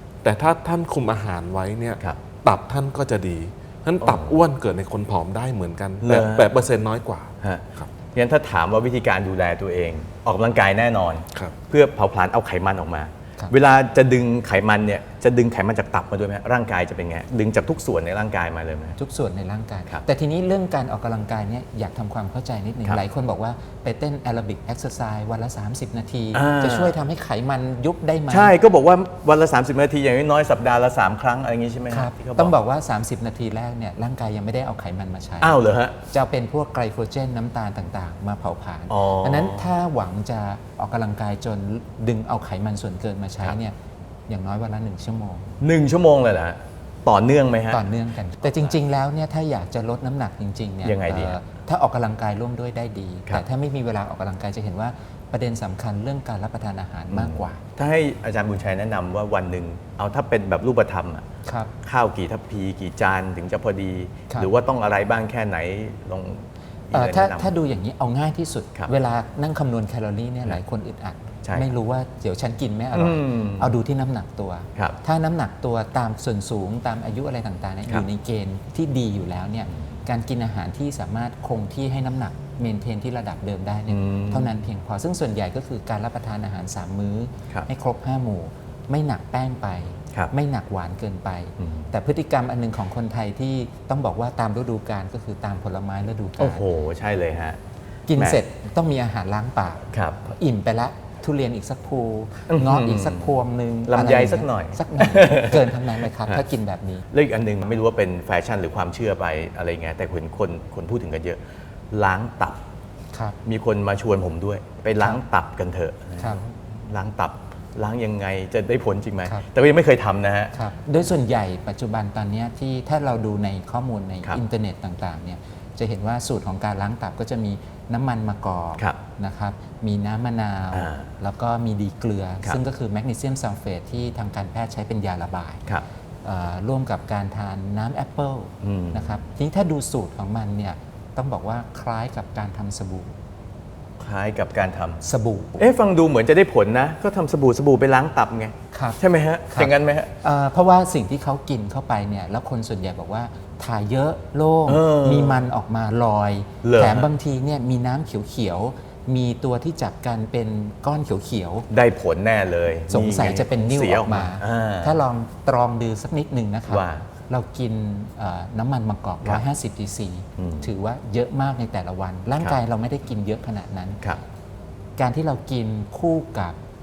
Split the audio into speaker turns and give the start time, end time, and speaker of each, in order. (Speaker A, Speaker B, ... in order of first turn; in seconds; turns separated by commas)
Speaker A: 0.2-7.9, Speaker B: 4.0-4.3, Speaker B: 6.0-6.5, Speaker B: 7.4-19.0, Speaker C: 19.0-28.5, Speaker B: 26.3-27.0, Speaker B: 28.3-32.5, Speaker C: 31.9-43.8, Speaker B: 35.4-36.0, Speaker B: 38.9-39.7, Speaker C: 44.3-45.5, Speaker B: 45.6-47.8, Speaker C: 47.7-57.6, Speaker B: 50.8-51.4, Speaker B: 57.1-61.2, Speaker C: 61.4-61.7, Speaker B: 61.8-67.5, Speaker C: 66.9-96.6, Speaker B: 71.4-71.7, Speaker B: 72.9-73.8, Speaker B: 83.9-84.6, Speaker B: 91.6-91.9, Speaker B: 96.4-97.6, Speaker C: 98.1-107.0, Speaker B: 99.9-100.2, Speaker B: 102.5-106.4, Speaker B: 107.1-111.4, Speaker B: 111.9-112.6, Speaker B: 113.4-120.5, Speaker C: 120.5-135.6, Speaker B: 130.7-131.1, Speaker C: 136.2-143.1, Speaker B: 138.6-139.2, Speaker B: 144.0-145.0, Speaker C: 145.0-145.7, Speaker B: 145.6-150.1, Speaker C: 148.7-161.7, Speaker B: 154.7-155.5, Speaker B: 156.6-157.1, Speaker B: 161.7-165.0, Speaker C: 162.9-174.0, Speaker B: 166.7-167.1, Speaker B: 170.4-170.7, Speaker C: 175.0-176.6